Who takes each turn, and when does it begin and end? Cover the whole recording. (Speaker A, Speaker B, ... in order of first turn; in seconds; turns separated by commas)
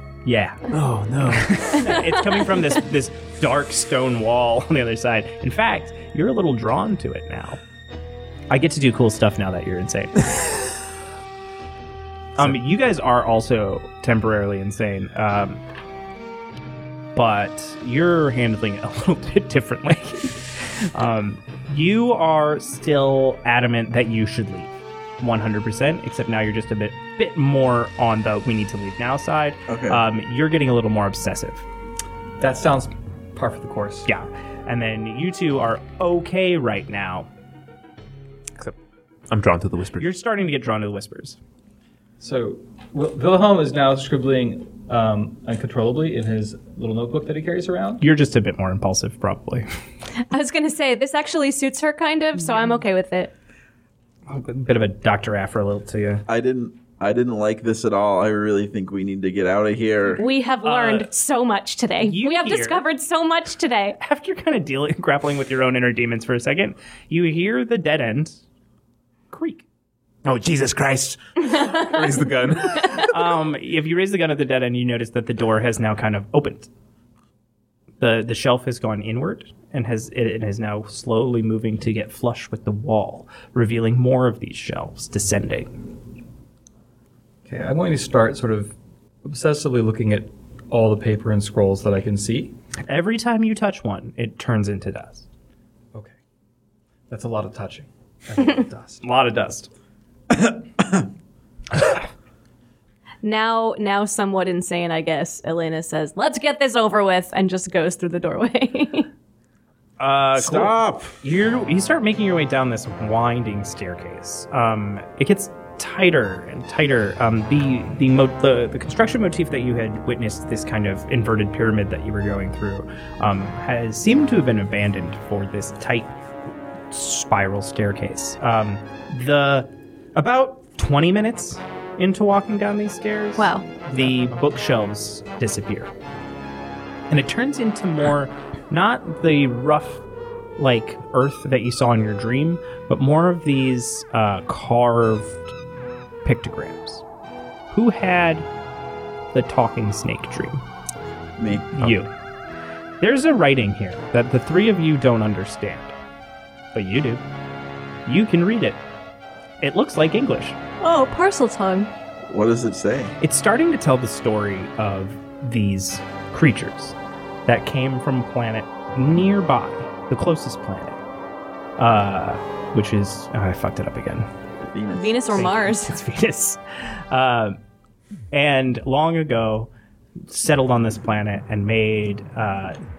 Speaker A: 0.2-0.7, Speaker B: 0.7-1.7, Speaker A: 1.3-7.6, Speaker C: 1.8-2.7, Speaker A: 8.5-10.6, Speaker A: 12.3-15.6, Speaker A: 17.1-31.6, Speaker D: 29.7-30.0, Speaker E: 32.4-34.1, Speaker A: 34.1-37.3, Speaker B: 39.3-40.1, Speaker A: 40.0-41.4, Speaker E: 42.2-48.0, Speaker A: 48.0-49.6, Speaker C: 50.3-53.3, Speaker A: 54.3-56.2, Speaker D: 56.3-60.2, Speaker C: 60.2-64.0, Speaker A: 60.6-61.1, Speaker A: 62.0-62.8, Speaker A: 64.0-68.4, Speaker A: 69.3-69.6, Speaker B: 70.2-73.1, Speaker A: 73.0-76.7, Speaker A: 78.0-85.7, Speaker E: 87.5-92.5, Speaker A: 92.9-95.2, Speaker E: 97.1-99.0, Speaker A: 99.0-99.7, Speaker D: 100.5-101.0, Speaker C: 103.2-109.1, Speaker A: 110.0-126.2, Speaker D: 110.4-111.1, Speaker A: 126.9-135.9, Speaker C: 133.4-133.7, Speaker A: 137.1-140.0, Speaker A: 140.6-145.5, Speaker A: 146.2-147.0, Speaker A: 147.7-148.5, Speaker A: 149.3-150.6, Speaker D: 151.4-151.7, Speaker A: 151.7-152.1, Speaker A: 153.0-155.9, Speaker A: 156.7-157.2, Speaker A: 158.1-158.8, Speaker A: 159.6-160.6, Speaker C: 160.8-161.9, Speaker D: 162.2-163.1, Speaker A: 163.2-171.0, Speaker A: 171.8-174.3, Speaker D: 174.7-175.3, Speaker C: 174.9-175.9, Speaker A: 175.3-177.6, Speaker A: 178.3-179.7, Speaker A: 180.3-182.8